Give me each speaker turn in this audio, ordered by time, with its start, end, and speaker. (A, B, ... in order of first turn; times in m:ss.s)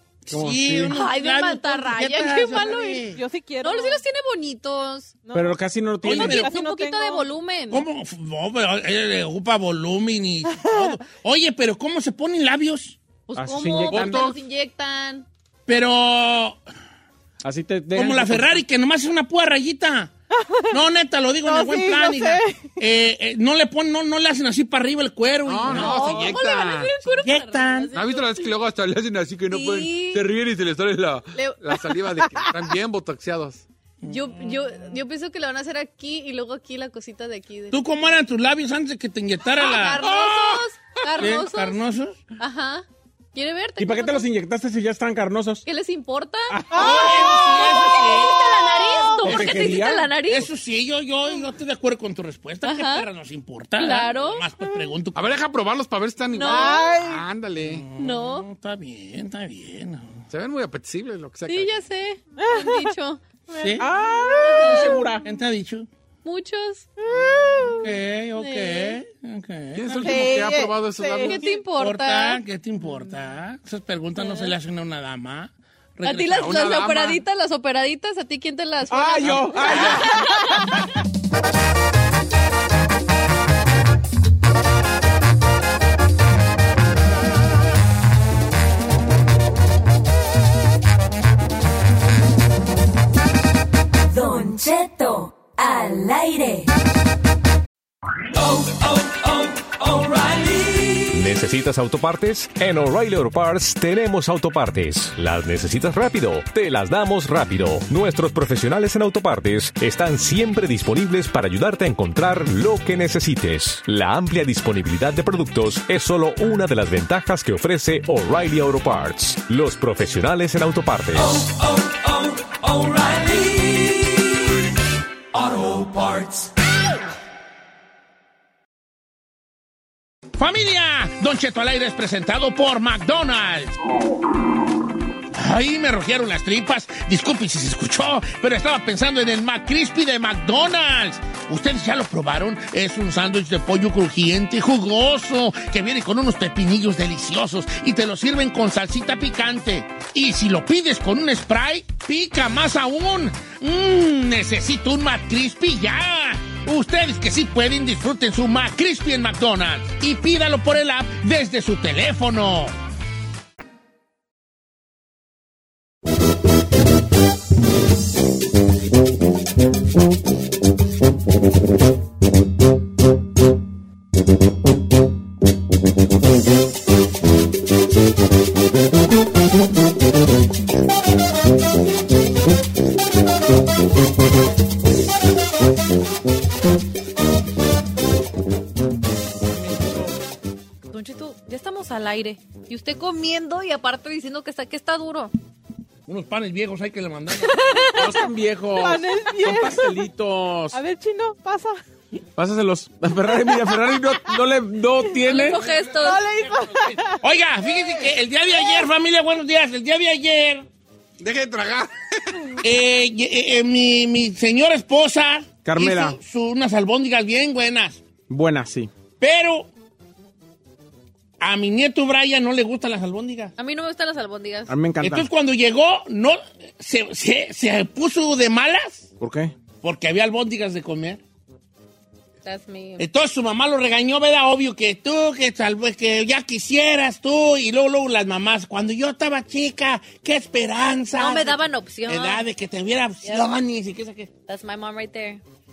0:00.2-0:03.2 A
0:00.3-0:01.0 B
0:00.9-0:05.1 C
0:02.6-0:04.0 D
0:05.2-0:07.2 D
0:05.3-0:06.4 B
0:06.0-0:06.5 A
0:06.1-0:07.8 C
0:07.7-0:13.0 A
0:10.5-0:10.9 D
0:13.3-0:15.2 C
0:13.3-0:14.2 B
0:13.9-0:14.4 E
0:15.7-0:16.6 A
0:17.4-0:18.6 B
0:17.9-0:20.1 A
0:20.3-0:20.7 D
0:20.7-0:26.3 A
0:21.4-0:22.7 D
0:25.4-0:26.9 E
0:25.6-0:28.5 C
0:27.2-0:27.9 A
0:27.9-0:33.6 E
0:29.5-0:30.3 C
0:34.0-0:34.3 A
0:34.0-0:37.9 C
0:37.7-0:40.1 A
0:39.5-0:41.8 C
0:40.0-0:40.6 E
0:41.2-0:42.2 A
0:42.4-0:44.2 C
0:43.8-0:45.6 B
0:45.6-0:50.5 C
0:46.5-0:47.4 B
0:46.7-0:49.2 D
0:46.7-0:48.4 A
0:49.2-0:50.1 B
0:49.2-0:55.2 A
0:52.6-0:53.1 C
0:53.8-0:54.4 C
0:55.1-0:57.8 E
0:56.3-0:56.9 C
0:56.4-0:57.2 D
0:57.6-1:00.2 A
0:58.0-0:58.5 C
1:00.3-1:01.7 E
1:01.5-1:03.2 C
1:02.4-1:02.9 D
1:03.5-1:05.0 D
1:03.5-1:03.9 A
1:03.8-1:05.2 B
1:04.4-1:05.0 C
1:05.2-1:05.9 A
1:06.2-1:06.9 C
1:07.0-1:07.9 D
1:07.8-1:10.2 A
1:08.4-1:09.0 C
1:09.7-1:11.4 E
1:09.9-1:11.4 D
1:11.2-1:12.4 C
1:11.5-1:16.5 A
1:16.0-1:20.8 C
1:16.3-1:17.2 E
1:18.9-1:20.6 B
1:19.2-1:20.0 E
1:34.1-1:36.7 F
1:38.4-1:38.8 F
1:39.3-1:41.2 F
1:41.1-2:01.4 G
2:01.1-2:04.3 F
2:05.3-2:06.5 F
2:10.4-2:13.7 A
2:15.3-2:42.7 A
3:09.7-3:10.0 B
3:10.9-3:15.3 C
3:16.1-3:17.8 A
3:17.4-3:18.1 C
3:18.0-3:20.8 B
3:18.7-3:20.0 D
3:20.7-3:21.8 D
3:22.4-3:25.6 B
3:25.2-3:26.3 C
3:25.9-3:27.2 D
3:26.5-3:30.6 A
3:31.2-3:32.6 E
3:32.6-3:38.0 A
3:35.6-3:36.2 B
3:38.3-3:38.9 B
3:39.2-3:39.7 A
3:41.4-3:43.5 A
3:43.6-3:44.7 C
3:44.7-3:45.3 B
3:45.0-3:49.1 A
3:49.2-3:49.5 B
3:49.8-3:51.2 A
3:52.4-3:53.0 C
3:53.0-4:04.3 A
4:01.1-4:02.4 C
4:03.2-4:03.5 C
4:04.5-4:05.4 C